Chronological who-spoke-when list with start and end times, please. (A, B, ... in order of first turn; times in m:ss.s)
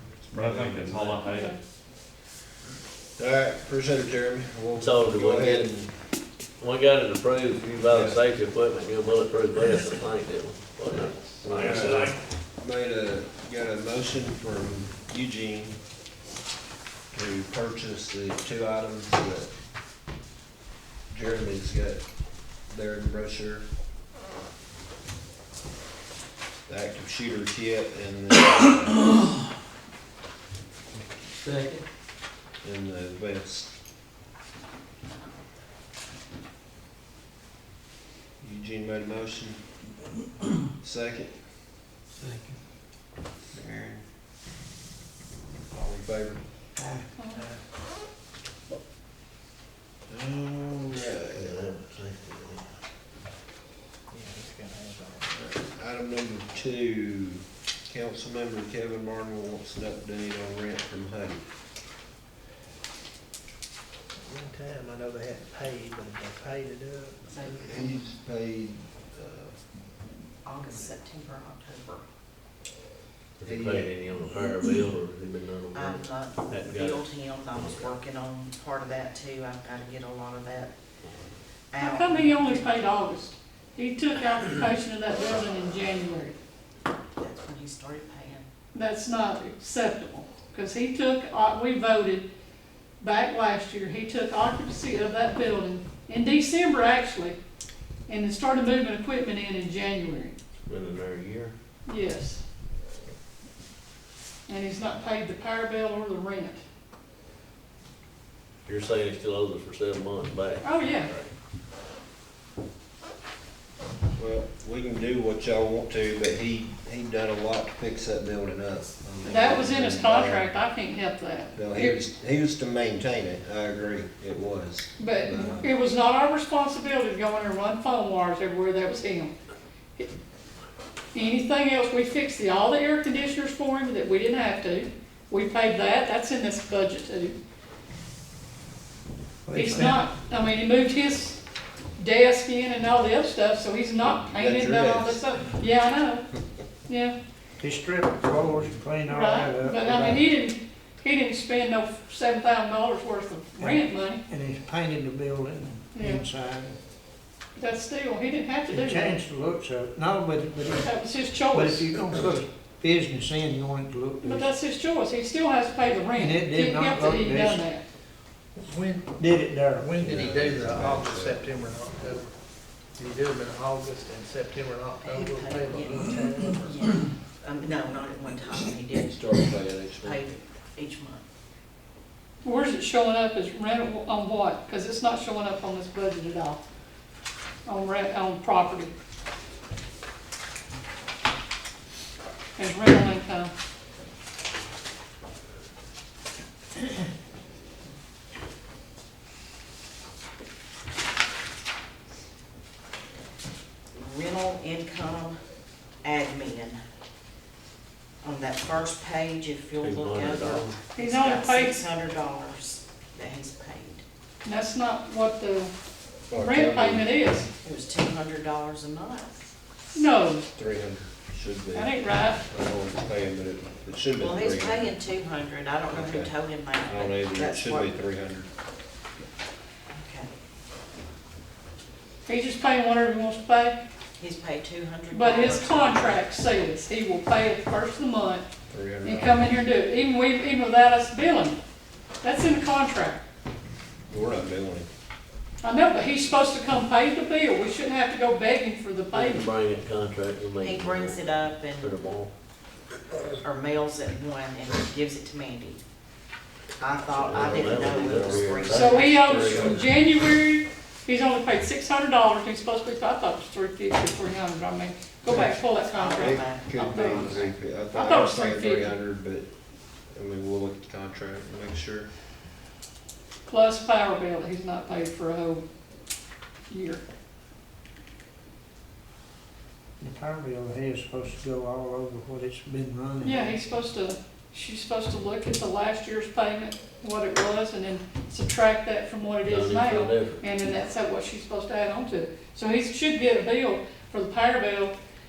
0:00.3-0:01.6 A
0:01.2-0:01.6 B
0:03.2-0:05.9 C
0:04.8-0:05.7 D
0:06.6-0:12.1 D
0:07.9-0:08.2 C
0:11.5-0:12.1 A
0:11.5-0:15.8 C
0:17.1-0:19.5 C
0:21.1-0:22.0 C
0:22.7-0:23.6 C
0:26.7-0:29.1 C
0:31.4-0:31.8 D
0:32.6-0:33.7 C
0:38.4-0:39.7 C
0:40.8-0:41.5 C
0:43.5-0:44.1 C
0:45.7-0:46.4 C
0:46.8-0:47.0 E
0:47.2-0:47.4 B
0:47.3-0:47.6 F
0:50.1-0:51.9 C
0:51.3-0:52.6 D
0:54.1-0:55.3 F
0:55.3-1:01.4 C
1:04.2-1:07.4 F
1:07.3-1:08.0 G
1:07.5-1:09.6 C
1:10.4-1:12.0 G
1:13.4-1:18.0 D
1:13.4-1:13.9 C
1:15.7-1:20.7 G
1:21.7-1:22.8 G
1:21.8-1:26.4 B
1:27.2-1:28.5 G
1:28.7-1:32.3 B
1:33.0-1:37.4 B
1:38.1-1:40.4 B
1:40.6-1:41.6 D
1:41.9-1:42.4 B
1:44.5-1:46.6 B
1:48.7-1:51.3 D
1:50.6-1:51.1 B
1:54.2-2:00.5 C
1:59.2-2:02.0 B
2:01.6-2:05.7 C
2:05.0-2:09.3 B
2:11.1-2:17.4 B
2:19.5-2:20.0 E
2:19.5-2:21.4 B
2:22.0-2:26.3 B
2:24.2-2:25.4 C
2:26.9-2:27.2 B
2:27.6-2:30.2 E
2:29.1-2:34.2 B
2:33.6-2:36.8 E
2:35.9-2:36.2 B
2:37.6-2:39.2 B
2:38.7-2:40.9 E
2:40.8-2:42.0 B
2:41.5-2:44.5 E
2:44.2-2:47.8 B
2:46.2-2:47.6 E
2:48.6-2:52.3 F
2:49.2-2:50.0 E
2:50.0-2:51.5 C
2:53.0-2:56.9 F
2:55.0-2:59.3 G
2:59.1-3:00.2 C
3:00.0-3:01.2 G
3:02.4-3:06.6 B
3:07.7-3:08.9 B
3:12.6-3:13.5 B
3:23.9-3:25.4 G
3:26.0-3:26.8 G
3:28.2-3:34.0 G
3:29.8-3:30.8 D
3:31.0-3:31.8 B
3:34.4-3:35.7 B
3:36.3-3:37.1 C
3:36.4-3:37.5 B
3:37.6-3:39.5 G
3:40.0-3:40.5 B
3:40.6-3:45.0 C
3:41.7-3:42.4 B
3:44.2-3:48.0 G
3:45.9-3:48.5 C
3:50.0-3:50.3 G
3:52.3-3:53.8 B
3:54.2-3:56.2 G
3:55.1-3:58.4 B
3:58.7-3:59.5 C
3:59.0-4:01.6 B
4:02.2-4:03.2 B
4:04.1-4:04.9 C
4:05.6-4:09.5 B
4:09.1-4:12.3 D
4:10.6-4:12.0 G
4:13.4-4:15.8 G
4:16.8-4:19.8 G
4:17.1-4:20.0 D
4:17.1-4:18.5 C
4:18.7-4:29.0 B
4:25.3-4:25.5 C
4:25.9-4:27.6 G
4:26.2-4:29.5 C
4:30.1-4:32.1 C
4:33.5-4:35.6 B
4:36.7-4:37.0 B
4:40.0-4:43.5 E
4:43.2-4:55.0 B
4:49.4-4:50.4 D